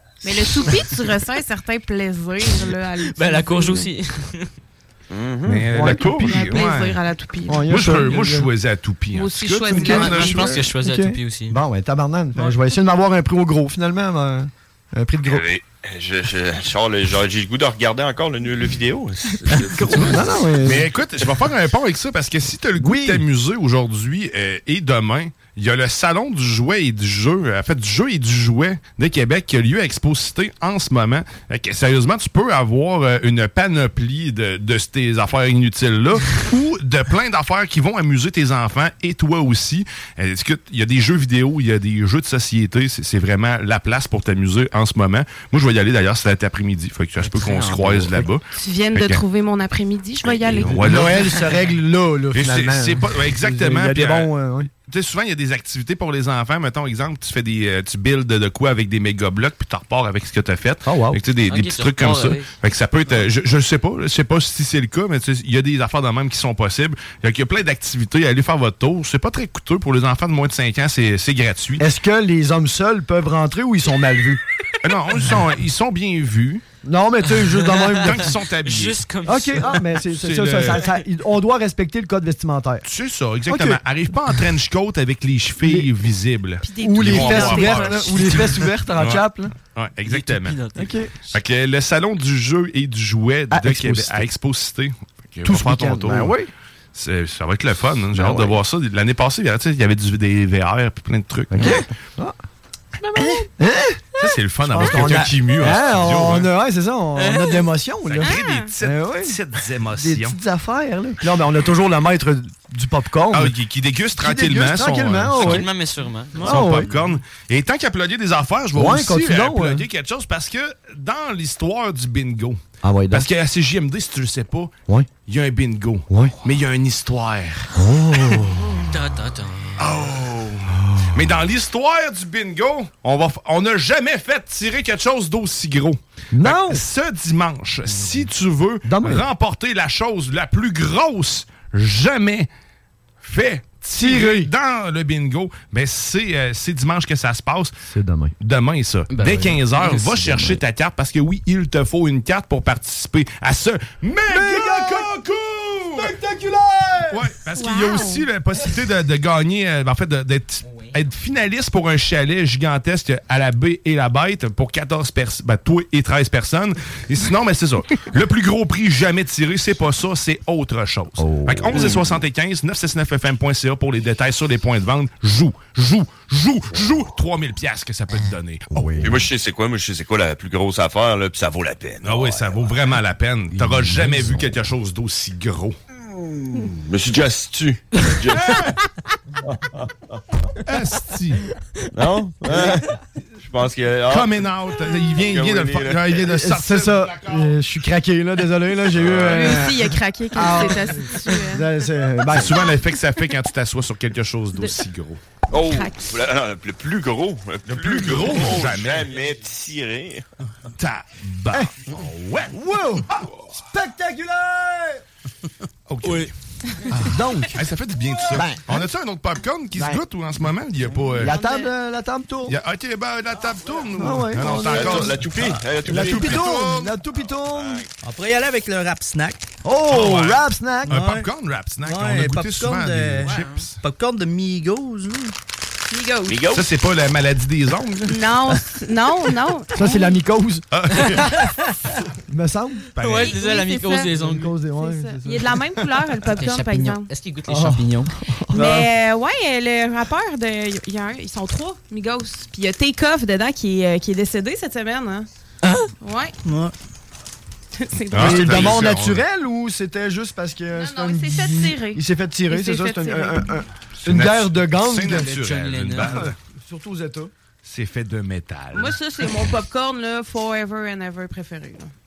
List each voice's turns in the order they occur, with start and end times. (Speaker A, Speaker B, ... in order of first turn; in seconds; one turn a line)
Speaker A: 0.2-3.9
Speaker B: 3.1-4.5
Speaker C: 5.1-6.2
Speaker D: 5.5-7.0
Speaker E: 5.5-6.3
Speaker A: 6.2-8.1
Speaker E: 7.5-8.5
Speaker D: 7.7-10.5
Speaker A: 9.1-10.5
Speaker E: 9.7-15.4
Speaker B: 9.8-11.6
Speaker C: 15.2-20.5
Speaker E: 19.5-20.9
Speaker D: 19.9-49.2
Speaker E: 22.8-23.2
Speaker B: 47.2-48.2
Speaker A: 48.5-51.4
Speaker D: 50.5-51.2
Speaker E: 50.7-54.7
Speaker D: 52.3-54.3
Speaker D: 54.9-71.8
Speaker E: 60.8-61.2
Speaker B: 61.5-62.5
Speaker E: 71.8-74.4
Speaker D: 74.8-76.6
Speaker E: 76.8-78.3
Speaker B: 77.4-80.0
Speaker D: 78.0-79.0
Speaker E: 79.2-82.8
Speaker D: 80.2-80.9
Speaker D: 82.8-90.6
Speaker E: 83.5-83.8
Speaker E: 85.6-85.9
Speaker A: 86.6-88.7
Speaker E: 86.8-89.5
Speaker B: 90.0-91.0
Speaker E: 90.8-91.1
Speaker D: 91.3-96.3
Speaker E: 93.5-94.3
Speaker E: 95.4-96.5
Speaker D: 96.9-101.9
Speaker E: 98.1-98.6
Speaker E: 101.5-102.3
Speaker A: 103.0-103.4
Speaker E: 103.6-104.0
Speaker D: 104.2-106.5
Speaker E: 104.6-109.4
Speaker B: 107.2-107.7
Speaker D: 108.1-110.4
Speaker A: 108.2-108.7
Speaker E: 109.9-113.5
Speaker D: 113.3-115.7
Speaker E: 114.2-115.7
Speaker B: 115.3-117.1
Speaker E: 116.4-116.9
Speaker D: 116.4-122.6
Speaker E: 118.7-119.8
Speaker E: 122.8-123.3
Speaker D: 123.1-124.7
Speaker D: 125.2-127.7
Speaker E: 126.1-126.3
Speaker E: 127.8-128.7
Speaker B: 128.8-129.9
Speaker D: 129.8-142.5
Speaker E: 130.7-131.2
Speaker E: 136.3-136.8
Speaker E: 138.8-139.2
Speaker D: 143.2-147.7
Speaker E: 144.0-144.5
Speaker E: 147.9-148.3
Speaker D: 148.4-156.1
Speaker B: 149.1-150.6
Speaker E: 154.3-155.1
Speaker E: 156.0-157.2
Speaker D: 157.1-179.1
Speaker A: 157.5-158.2
Speaker B: 160.7-160.9
Speaker E: 171.2-172.0
Speaker C: 171.8-172.0
Speaker E: 178.7-179.2
Speaker C: 179.0-182.7
Speaker D: 182.0-185.8
Speaker E: 183.6-184.5
Speaker C: 186.0-188.6
Speaker D: 188.4-188.7
Speaker C: 189.4-190.2
Speaker D: 190.6-191.4
Speaker C: 191.9-192.8
Speaker C: 193.4-194.3
Speaker D: 194.1-197.6
Speaker C: 195.2-196.2
Speaker E: 196.2-202.6
Speaker C: 198.9-199.5
Speaker A: 199.3-201.7
Speaker D: 202.3-205.2
Speaker C: 205.5-210.2
Speaker A: 205.5-206.2
Speaker D: 207.7-209.1
Speaker D: 210.8-212.6
Speaker E: 212.5-215.0
Speaker D: 213.1-213.5
Speaker D: 215.9-216.3
Speaker B: 216.0-216.3
Speaker D: 216.9-221.3
Speaker E: 216.9-217.6
Speaker E: 218.3-218.9
Speaker E: 221.2-222.6
Speaker A: 221.2-221.7
Speaker D: 222.5-226.9
Speaker E: 223.9-225.2
Speaker C: 224.7-226.4
Speaker E: 225.8-227.8
Speaker C: 227.5-227.9
Speaker F: 228.0-229.4
Speaker E: 229.6-231.0
Speaker D: 229.9-233.8
Speaker F: 230.9-231.3
Speaker F: 231.8-233.3
Speaker B: 233.2-233.6
Speaker F: 233.8-235.3
Speaker A: 235.9-236.5
Speaker C: 236.3-236.6
Speaker D: 236.5-238.3
Speaker A: 238.1-240.2
Speaker E: 239.7-241.3
Speaker D: 240.7-241.4
Speaker E: 242.3-242.8
Speaker D: 243.0-243.3
Speaker B: 243.0-244.5
Speaker A: 243.1-244.1
Speaker E: 244.1-245.6
Speaker A: 244.7-247.1
Speaker B: 246.3-248.1
Speaker E: 247.5-248.8
Speaker A: 248.5-255.3
Speaker F: 255.6-255.9
Speaker A: 256.0-256.4
Speaker F: 256.4-256.7
Speaker A: 257.8-258.8
Speaker D: 258.1-259.2
Speaker E: 258.1-265.3
Speaker A: 260.7-263.5
Speaker D: 264.0-266.3
Speaker B: 265.1-266.3
Speaker E: 266.0-267.3
Speaker D: 267.6-269.3
Speaker A: 268.7-271.9